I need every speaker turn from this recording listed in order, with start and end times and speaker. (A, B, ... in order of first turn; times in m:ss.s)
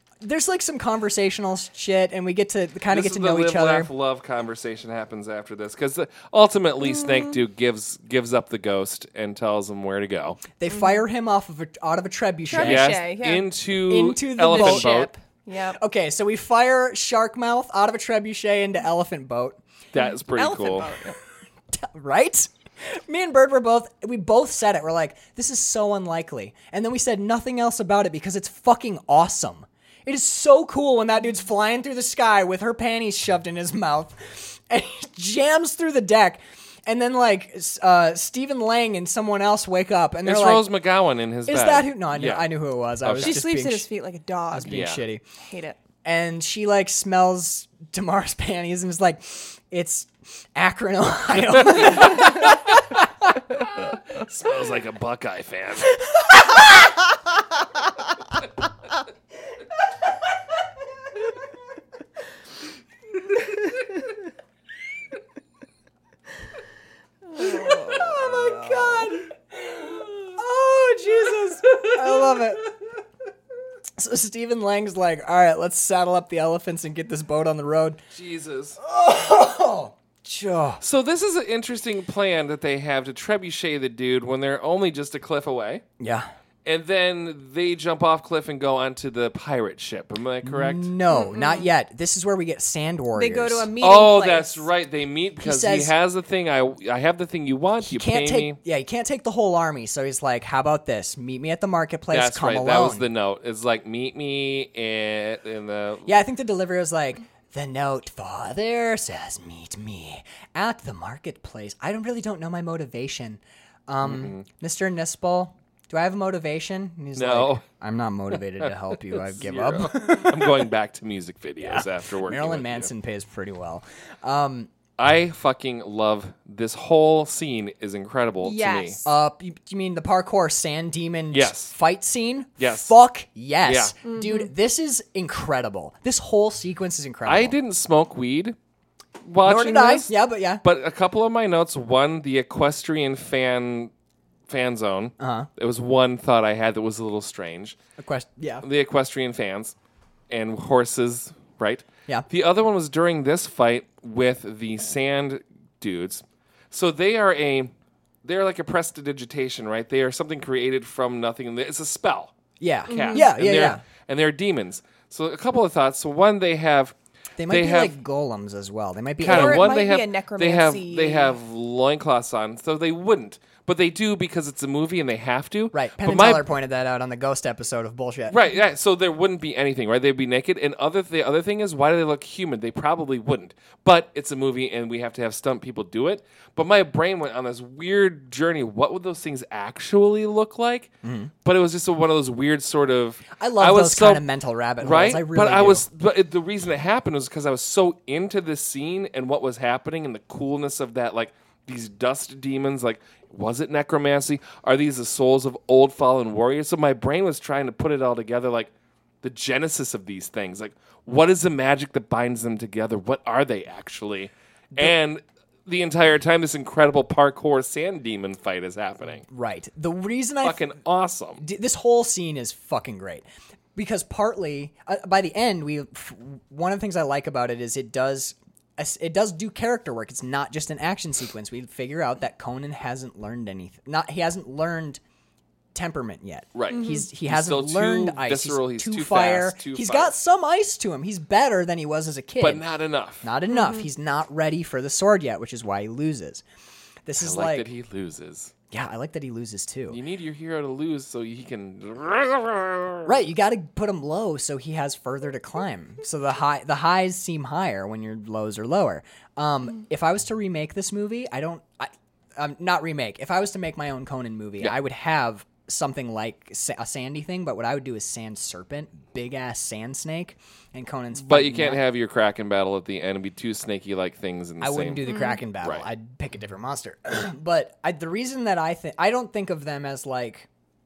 0:00.2-0:03.9 A
0:02.9-0:10.4 B
0:06.8-0:07.4 C
0:10.6-0:13.0 A
0:10.7-0:11.0 C
0:12.5-0:13.5 C
0:12.6-0:15.1 B
0:13.9-0:14.9 A
0:14.5-0:15.8 C
0:15.8-0:19.6 A
0:19.9-0:20.9 B
0:20.0-0:21.2 C
0:21.7-0:40.6 A
0:40.2-0:42.5 B
0:41.5-0:43.8 A
0:43.0-0:43.4 B
0:43.2-0:44.8 C
0:44.5-0:45.2 A
0:44.6-0:45.0 B
0:45.4-0:45.8 C
0:46.0-0:53.4 A
0:51.8-0:52.5 B
0:54.1-0:56.0 B
1:07.3-1:09.1 C
1:07.4-1:12.7 A
1:14.0-1:18.0 A
1:18.1-1:18.8 B
1:18.8-1:20.8 A
1:20.8-1:25.8 B
1:26.0-1:26.3 A
1:26.6-1:30.9 B
1:30.4-1:33.7 A
1:31.1-1:31.7 C
1:33.1-1:34.6 C
1:33.8-1:38.6 B
1:35.4-1:35.9 A
1:37.8-1:43.0 A
1:42.1-1:46.1 B
1:46.1-2:00.7 A
1:54.0-1:54.4 B
1:57.2-1:57.6 B
1:58.6-2:02.9 B
2:01.6-2:04.7 A
2:05.0-2:09.0 B
2:08.4-2:09.1 C
2:09.0-2:17.6 A
2:11.3-2:11.7 B
2:12.6-2:12.9 B
2:13.6-2:13.9 B
2:14.0-2:14.5 C
2:17.3-2:18.6 B
2:19.2-2:23.9 B
2:19.4-2:20.6 A
2:24.5-2:27.8 B
2:25.2-2:25.5 A
2:28.0-2:28.6 A
2:28.6-2:29.7 B
2:30.3-2:37.7 B
2:38.2-2:42.4 B
2:42.6-2:43.8 A
2:42.9-2:47.0 B
2:42.9-2:43.3 C
2:47.4-2:49.8 A
2:47.5-2:48.0 B
2:49.2-2:56.4 B
2:49.3-2:51.4 C
2:55.7-2:58.4 A
2:58.3-3:14.2 B
3:11.0-3:11.3 A
3:13.3-3:15.8 A
3:14.8-3:28.7 B
3:29.2-3:39.2 B
3:39.3-3:40.6 A
3:40.4-3:41.4 B
3:41.4-3:55.0 A
3:55.7-4:02.6 A
3:56.6-4:00.1 B
3:56.7-3:57.0 C
4:02.4-4:03.3 B
4:03.2-4:06.4 A
4:03.5-4:03.8 C
4:07.1-4:07.7 A
4:07.2-4:08.5 B
4:08.7-4:10.0 A
4:09.9-4:13.1 B
4:13.1-4:31.8 A
4:31.2-4:35.0 B
4:34.6-4:40.5 A
4:35.0-4:35.4 C